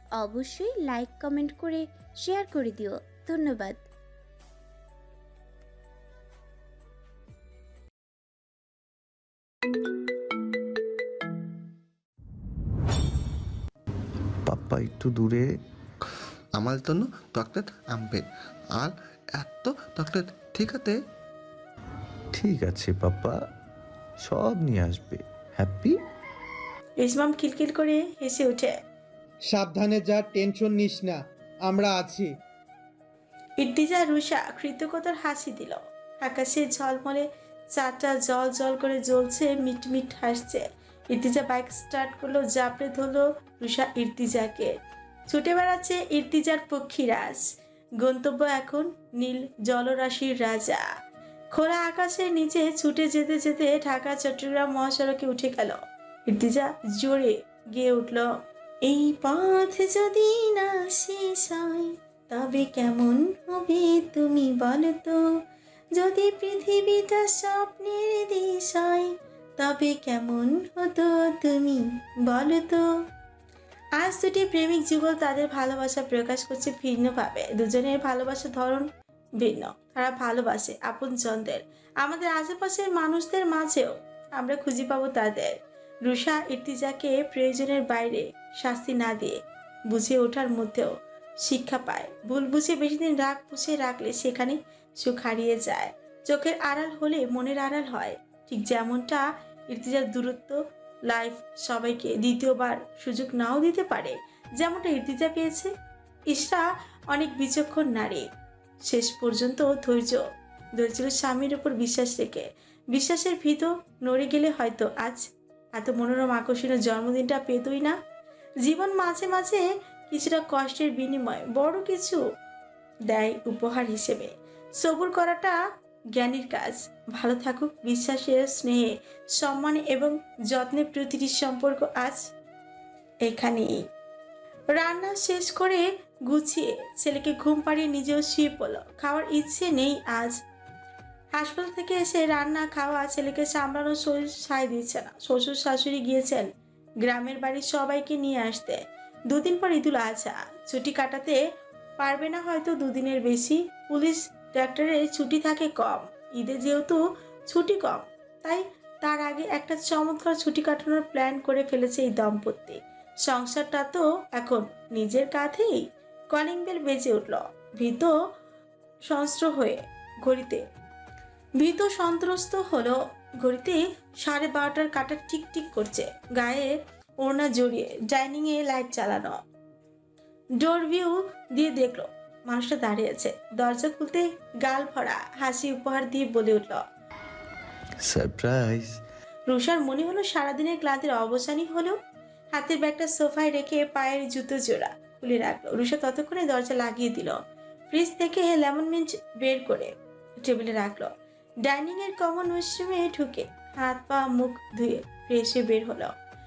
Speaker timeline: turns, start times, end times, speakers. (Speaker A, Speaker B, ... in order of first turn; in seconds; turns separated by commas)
Speaker A: 0.2-3.8, Speaker B: 14.5-15.5, Speaker C: 16.6-21.0, Speaker B: 22.3-23.4, Speaker B: 24.2-26.0, Speaker D: 27.0-28.8, Speaker E: 29.5-32.3, Speaker D: 33.6-44.7, Speaker D: 45.3-47.4, Speaker D: 48.0-50.9, Speaker D: 51.5-58.3, Speaker D: 58.9-65.3, Speaker D: 66.0-72.8, Speaker D: 74.0-78.9, Speaker D: 79.4-89.4, Speaker D: 89.9-90.9, Speaker D: 91.4-105.7, Speaker D: 106.3-108.3, Speaker D: 108.8-110.2, Speaker D: 110.8-118.0, Speaker D: 118.6-122.2, Speaker D: 123.1-125.6, Speaker D: 126.2-132.3, Speaker D: 133.2-133.8, Speaker D: 134.7-140.4, Speaker D: 141.3-146.5, Speaker D: 147.0-151.4, Speaker D: 152.0-168.1, Speaker D: 169.1-170.6, Speaker D: 171.6-179.4, Speaker D: 180.6-186.8, Speaker B: 188.0-189.0, Speaker D: 189.5-192.0, Speaker D: 192.5-197.4, Speaker D: 197.9-201.1, Speaker D: 201.6-206.1